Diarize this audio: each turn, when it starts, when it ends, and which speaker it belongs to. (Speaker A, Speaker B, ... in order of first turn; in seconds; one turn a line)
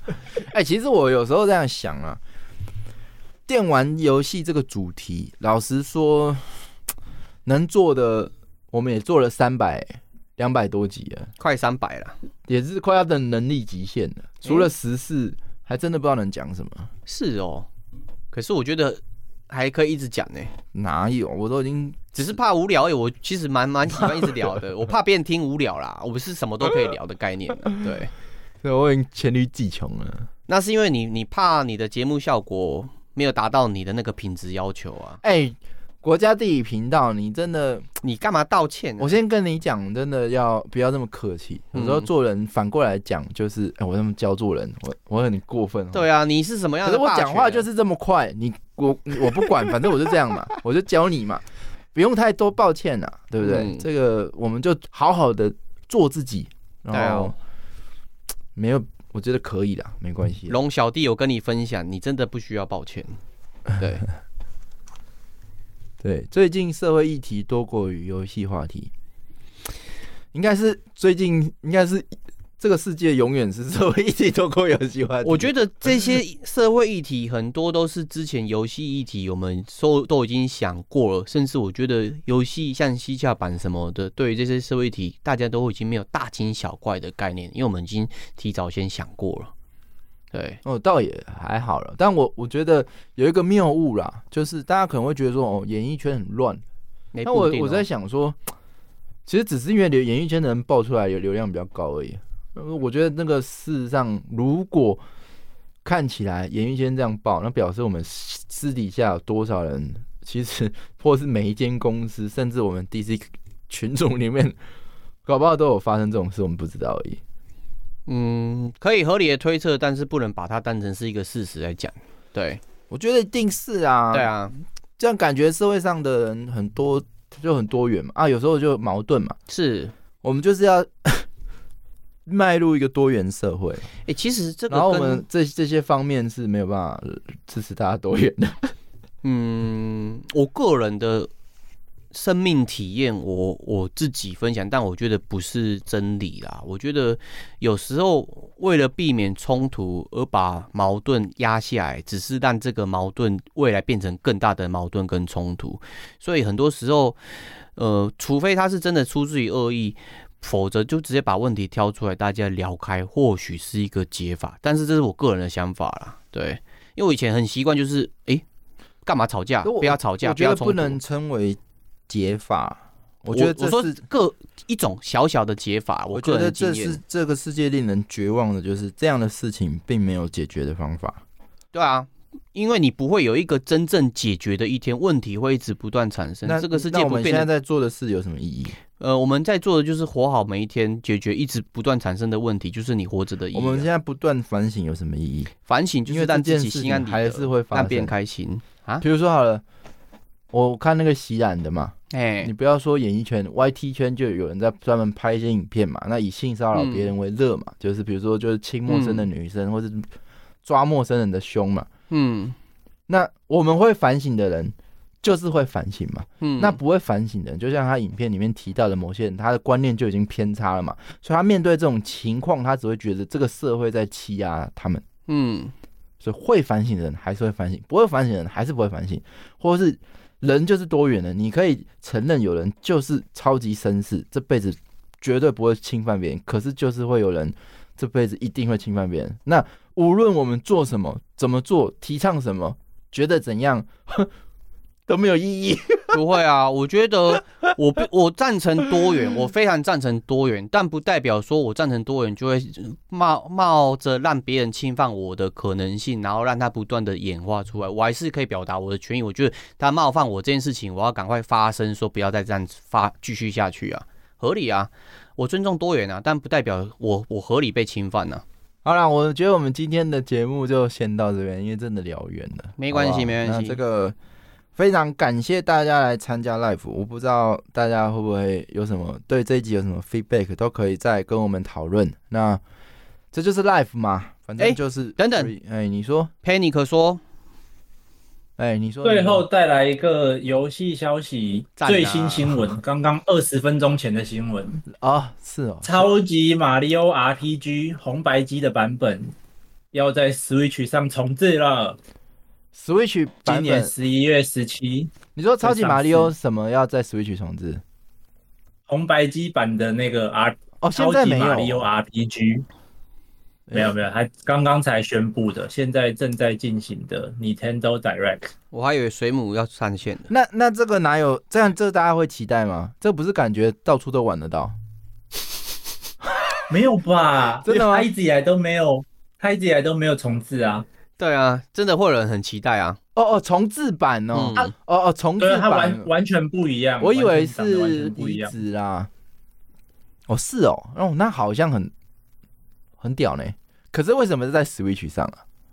Speaker A: 0.4-2.2
Speaker A: 3.5-6.4
Speaker A: 7.4-11.3
Speaker B: 11.4-12.1
Speaker A: 12.5-16.9
Speaker B: 17.1-17.7
Speaker B: 18.3-20.5
Speaker A: 20.7-22.3
Speaker B: 22.1-28.1
Speaker A: 23.9-24.5
Speaker A: 28.6-30.3
Speaker B: 30.5-35.2
Speaker A: 35.2-37.9
Speaker B: 38.0-39.2
Speaker A: 39.0-46.0
Speaker B: 41.7-42.1
Speaker B: 45.9-47.7
Speaker A: 46.8-51.4
Speaker A: 51.9-57.3
Speaker B: 53.4-53.8
Speaker B: 56.9-57.3
Speaker A: 58.5-60.5
Speaker B: 60.5-63.2
Speaker B: 63.8-64.0
Speaker A: 66.0-68.9
Speaker A: 70.3-76.2
Speaker B: 75.2-89.5
Speaker B: 90.3-90.6
Speaker A: 90.6-96.6
Speaker B: 97.1-97.8
Speaker A: 97.2-98.4
Speaker A: 99.3-105.0
Speaker A: 105.8-114.5
Speaker A: 115.2-117.2
Speaker B: 118.1-122.6
Speaker A: 122.9-124.3
Speaker B: 124.1-124.5
Speaker A: 125.0-129.3
Speaker B: 129.5-129.9
Speaker A: 130.2-131.2
Speaker A: 132.2-133.9
Speaker B: 134.1-135.2
Speaker A: 134.7-138.7
Speaker B: 139.2-141.3
Speaker B: 142.1-157.2
Speaker B: 157.8-168.4
Speaker B: 169.0-171.0
Speaker A: 169.6-174.0
Speaker B: 173.3-177.0
Speaker A: 176.1-181.2
Speaker B: 181.7-187.5
Speaker A: 186.4-188.8
Speaker B: 189.0-193.9
Speaker A: 193.5-195.5
Speaker B: 195.7-199.0
Speaker A: 196.1-198.1
Speaker A: 199.0-199.6
Speaker A: 200.5-210.1
Speaker B: 202.1-202.5
Speaker B: 206.7-207.1
Speaker B: 208.9-209.3
Speaker A: 210.6-211.9
Speaker B: 212.1-212.6
Speaker A: 213.1-225.0
Speaker B: 216.4-216.8
Speaker B: 225.3-225.7
Speaker A: 226.2-244.3
Speaker A: 245.1-246.2
Speaker B: 246.1-268.4
Speaker A: 268.8-274.1
Speaker B: 272.8-273.8
Speaker A: 274.8-282.6
Speaker A: 283.3-286.3
Speaker B: 284.6-285.5
Speaker B: 286.4-287.2
Speaker A: 288.6-289.4
Speaker C: 289.0-294.8
Speaker B: 291.8-292.7
Speaker A: 294.9-296.1
Speaker C: 295.8-299.3
Speaker C: 299.9-302.0
Speaker A: 302.7-303.9
Speaker C: 303.4-306.3
Speaker A: 305.3-307.8
Speaker C: 308.9-312.6
Speaker A: 310.8-311.9
Speaker A: 313.7-313.9
Speaker C: 313.7-318.5
Speaker B: 318.7-320.3
Speaker A: 320.3-324.8
Speaker C: 326.7-330.9
Speaker A: 327.6-328.1
Speaker B: 331.2-333.0
Speaker A: 333.1-336.1
Speaker B: 334.3-334.7
Speaker C: 335.4-338.5
Speaker A: 337.0-339.1
Speaker A: 340.3-341.9
Speaker A: 343.0-345.4